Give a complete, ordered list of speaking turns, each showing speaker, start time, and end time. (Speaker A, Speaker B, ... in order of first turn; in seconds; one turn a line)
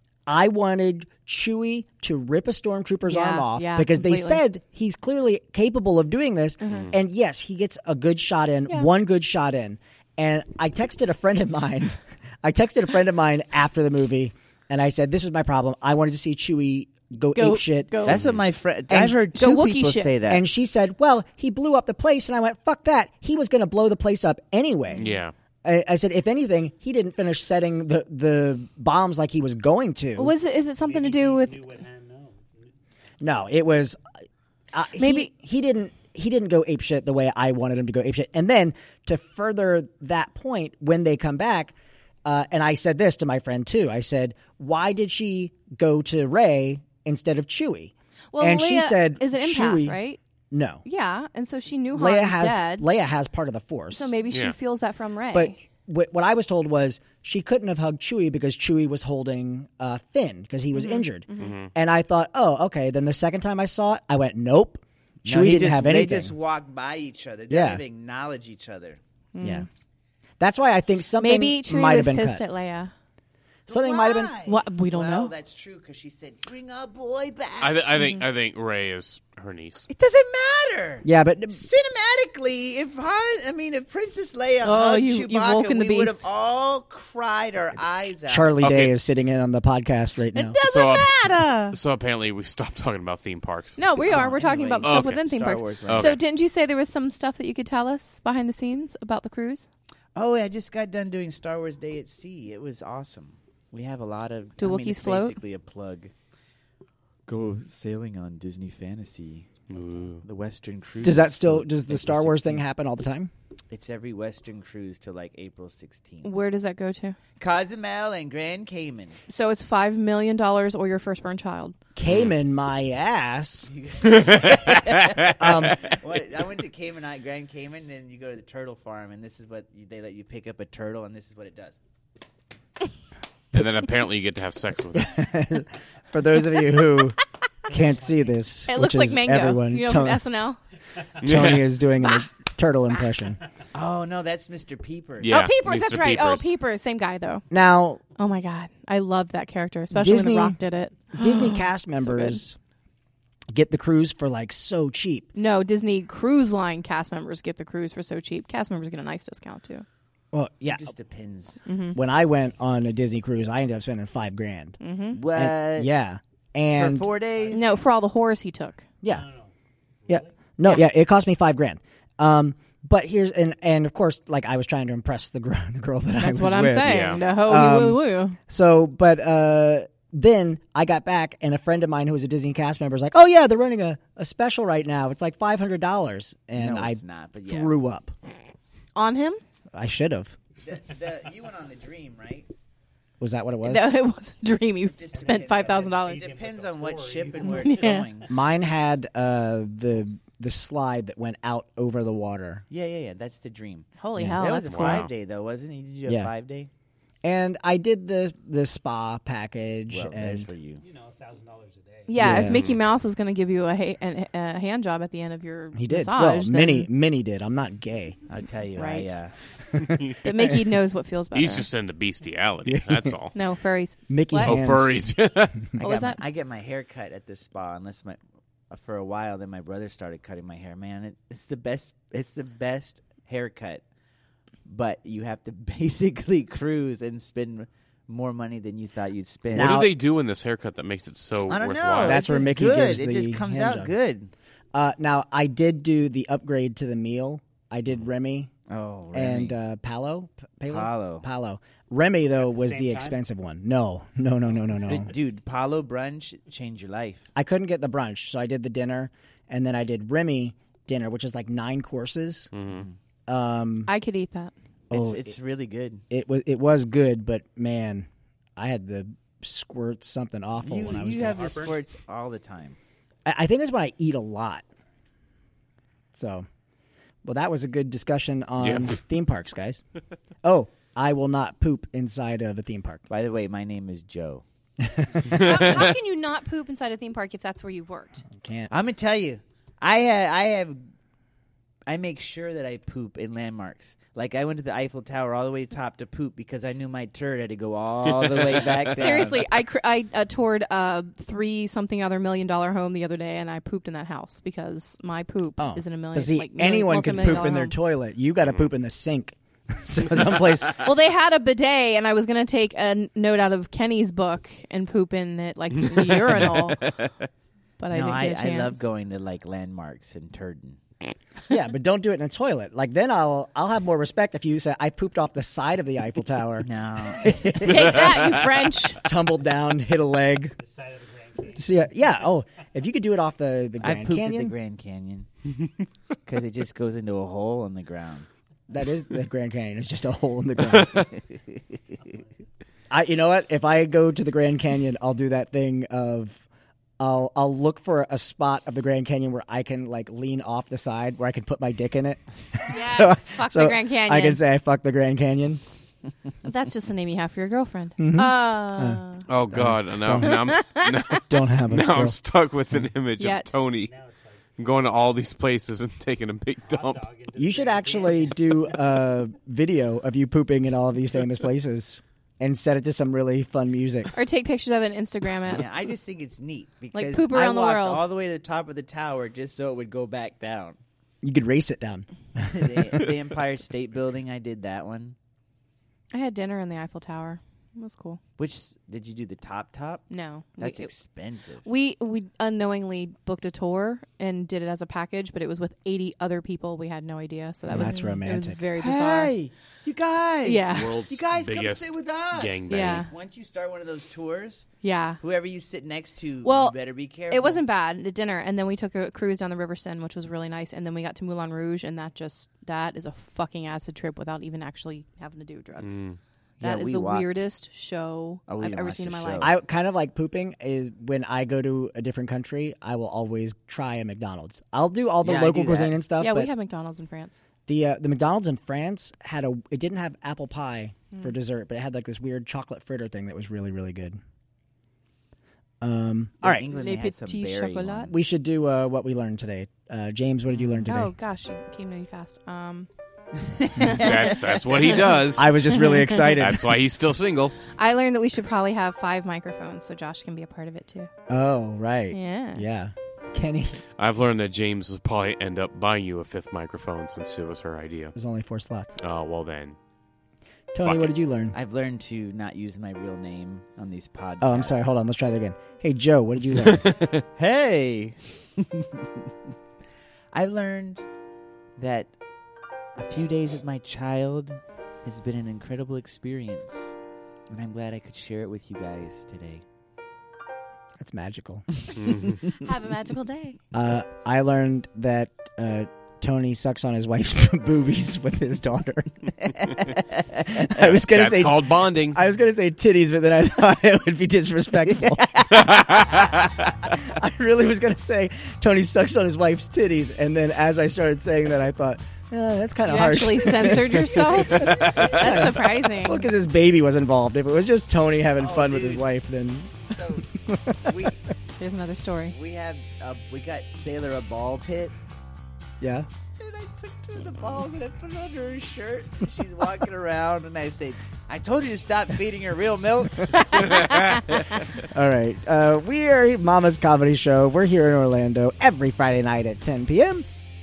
Speaker A: 0.3-18.1
Speaker B: 3.1-4.4
Speaker B: 6.6-6.9
Speaker C: 6.7-6.9
Speaker B: 17.4-18.2
Speaker D: 18.1-20.4
Speaker C: 18.1-18.4
Speaker A: 18.9-19.2
Speaker B: 19.3-20.1
Speaker A: 20.3-30.3
Speaker C: 25.0-25.3
Speaker B: 30.2-31.6
Speaker E: 30.8-32.6
Speaker A: 33.2-34.0
Speaker A: 34.7-41.7
Speaker B: 35.0-35.3
Speaker A: 42.2-50.0
Speaker B: 48.3-50.2
Speaker A: 50.5-50.8
Speaker B: 50.9-52.9
Speaker A: 51.9-54.1
Speaker B: 53.9-55.6
Speaker A: 55.3-66.3
Speaker B: 60.7-61.6
Speaker C: 61.4-61.7
Speaker D: 65.2-69.0
Speaker A: 67.5-67.8
Speaker B: 69.3-69.7
Speaker A: 69.4-69.7
Speaker A: 70.4-72.4
Speaker B: 71.2-72.9
Speaker A: 73.7-74.4
Speaker D: 73.7-77.9
Speaker B: 74.5-75.3
Speaker C: 77.6-79.9
Speaker D: 79.9-88.5
Speaker A: 81.0-81.7
Speaker B: 84.6-86.2
Speaker A: 88.3-90.6
Speaker C: 88.6-88.9
Speaker B: 90.3-91.8
Speaker C: 90.6-93.8
Speaker B: 93.8-99.7
Speaker D: 94.0-96.2
Speaker C: 94.8-95.2
Speaker C: 95.9-96.2
Speaker D: 100.2-106.1
Speaker B: 104.6-105.4
Speaker D: 107.3-109.5
Speaker C: 109.7-110.2
Speaker D: 110.2-112.6
Speaker A: 111.0-113.3
Speaker D: 113.7-116.3
Speaker B: 116.2-117.2
Speaker D: 117.4-119.2
Speaker B: 119.3-121.8
Speaker A: 122.0-123.7
Speaker D: 123.7-131.8
Speaker C: 124.1-124.9
Speaker A: 125.4-125.8
Speaker C: 133.5-135.2
Speaker A: 134.9-140.2
Speaker E: 137.7-138.2
Speaker B: 138.7-140.6
Speaker C: 141.2-141.7
Speaker A: 141.2-143.4
Speaker D: 143.7-145.3
Speaker C: 145.2-146.5
Speaker B: 145.3-147.4
Speaker A: 147.5-148.0
Speaker B: 148.2-152.4
Speaker A: 149.9-150.6
Speaker A: 151.1-152.6
Speaker A: 153.5-155.3
Speaker B: 155.3-159.8
Speaker A: 160.3-160.9
Speaker D: 160.7-161.6
Speaker B: 161.7-162.0
Speaker A: 161.9-164.8
Speaker B: 164.8-165.2
Speaker D: 165.1-165.9
Speaker A: 165.3-167.1
Speaker D: 166.7-167.8
Speaker B: 167.5-168.8
Speaker E: 169.1-169.5
Speaker E: 170.1-170.3
Speaker A: 170.1-188.1
Speaker B: 176.2-178.4
Speaker C: 176.8-177.2
Speaker D: 186.6-187.7
Speaker B: 188.9-189.4
Speaker A: 189.7-190.3
Speaker D: 190.6-192.5
Speaker A: 193.2-193.9
Speaker B: 193.6-196.2
Speaker D: 194.9-198.3
Speaker E: 195.2-198.1
Speaker B: 197.4-198.1
Speaker A: 198.3-202.6
Speaker D: 202.7-206.7
Speaker B: 204.0-205.1
Speaker A: 204.2-204.4
Speaker C: 204.7-205.1
Speaker A: 206.1-206.3
Speaker A: 207.2-210.5
Speaker D: 209.9-210.8
Speaker E: 210.8-212.4
Speaker B: 212.1-216.9
Speaker A: 212.2-212.6
Speaker C: 212.4-212.8
Speaker A: 215.7-218.2
Speaker D: 218.3-219.3
Speaker B: 218.8-219.1
Speaker C: 219.8-220.2
Speaker B: 220.2-221.7
Speaker C: 221.3-223.4
Speaker A: 222.7-223.2
Speaker B: 223.3-224.6
Speaker A: 224.1-225.1
Speaker C: 224.4-225.7
Speaker D: 225.8-233.8
Speaker B: 225.8-226.2
Speaker D: 234.7-239.8
Speaker C: 239.5-242.2
Speaker A: 239.5-239.9
Speaker D: 241.5-244.3
Speaker A: 242.0-243.9
Speaker A: 244.7-248.5
Speaker D: 248.7-249.6
Speaker A: 249.1-255.1
Speaker D: 250.7-251.2
Speaker E: 252.4-253.2
Speaker D: 254.8-257.3
Speaker A: 257.4-262.5
Speaker C: 262.5-262.9
Speaker D: 262.7-262.9
Speaker A: 263.3-263.9
Speaker B: 263.9-264.5
Speaker A: 264.9-265.4
Speaker D: 264.9-266.0
Speaker A: 266.1-271.7
Speaker D: 270.6-272.8
Speaker E: 271.2-271.8
Speaker A: 273.3-274.6
Speaker A: 276.1-276.5
Speaker A: 277.2-279.8
Speaker C: 278.6-279.0
Speaker A: 280.4-283.0
Speaker D: 283.1-284.4
Speaker A: 284.8-285.8
Speaker B: 285.3-288.2
Speaker A: 288.3-288.7
Speaker D: 288.7-290.8
Speaker D: 291.9-299.4
Speaker C: 298.2-299.3
Speaker B: 298.9-307.8
Speaker A: 305.6-310.8
Speaker B: 310.8-316.9
Speaker B: 317.8-318.8
Speaker D: 317.9-320.8
Speaker A: 321.5-328.5
Speaker D: 326.6-327.4
Speaker B: 327.6-329.0
Speaker A: 329.0-330.6
Speaker E: 330.6-331.9
Speaker A: 331.6-334.5
Speaker D: 333.8-335.3
Speaker D: 336.2-338.3
Speaker A: 338.7-341.1
Speaker D: 341.0-341.6
Speaker E: 342.0-342.3
Speaker A: 342.9-346.4
Speaker A: 347.0-355.6
Speaker B: 352.7-354.4
Speaker B: 356.4-359.2
Speaker A: 358.0-360.5
Speaker C: 359.3-363.9
Speaker B: 360.2-361.2
Speaker A: 361.3-362.2
Speaker B: 363.2-363.5
Speaker E: 363.7-364.6
Speaker C: 364.6-367.1
Speaker E: 366.6-368.9
Speaker A: 367.4-374.1
Speaker B: 374.1-375.6
Speaker D: 375.5-380.8
Speaker B: 376.9-378.0
Speaker A: 381.2-383.1
Speaker D: 382.5-385.2
Speaker B: 386.1-388.2
Speaker D: 388.4-390.1
Speaker B: 390.1-390.9
Speaker D: 390.6-391.7
Speaker B: 391.6-399.3
Speaker A: 397.7-398.6
Speaker D: 398.8-404.7
Speaker B: 400.4-401.0
Speaker C: 400.7-403.1
Speaker B: 402.7-403.1
Speaker B: 404.8-405.2
Speaker D: 405.2-407.6
Speaker B: 406.4-406.8
Speaker B: 407.3-416.0
Speaker C: 415.8-416.2
Speaker D: 416.6-417.3
Speaker B: 416.6-419.5
Speaker D: 418.5-419.5
Speaker A: 419.4-426.5
Speaker D: 425.2-426.0
Speaker B: 426.2-427.4
Speaker A: 427.7-434.2
Speaker A: 435.8-436.7
Speaker D: 436.4-438.1
Speaker B: 436.6-438.1
Speaker A: 438.1-441.1
Speaker D: 440.5-440.9
Speaker B: 440.9-442.9
Speaker D: 443.5-445.2
Speaker C: 443.8-445.6
Speaker A: 445.3-446.8
Speaker B: 445.7-446.3
Speaker C: 446.4-447.6
Speaker B: 447.7-451.1
Speaker A: 451.3-453.8
Speaker B: 452.1-452.6
Speaker C: 454.0-458.1
Speaker A: 458.1-459.0
Speaker C: 459.0-459.8
Speaker A: 460.7-461.6
Speaker C: 460.8-461.1
Speaker D: 461.5-464.9
Speaker A: 464.4-466.9
Speaker C: 466.6-467.2
Speaker D: 467.4-469.3
Speaker D: 470.3-471.1
Speaker D: 471.8-472.1
Speaker D: 473.0-476.9
Speaker D: 477.5-479.6
Speaker A: 481.0-481.7
Speaker C: 482.0-482.4
Speaker D: 482.1-482.4
Speaker B: 482.6-483.6
Speaker A: 483.7-489.6
Speaker A: 490.4-496.2
Speaker C: 490.8-492.2
Speaker D: 495.1-495.5
Speaker C: 495.7-496.2
Speaker A: 496.9-511.1
Speaker B: 502.9-506.2
Speaker D: 504.6-505.4
Speaker D: 508.4-509.1
Speaker D: 509.9-510.2
Speaker D: 510.9-511.2
Speaker B: 511.6-512.4
Speaker D: 512.3-514.9
Speaker A: 515.8-516.1
Speaker D: 516.4-524.7
Speaker A: 524.9-530.2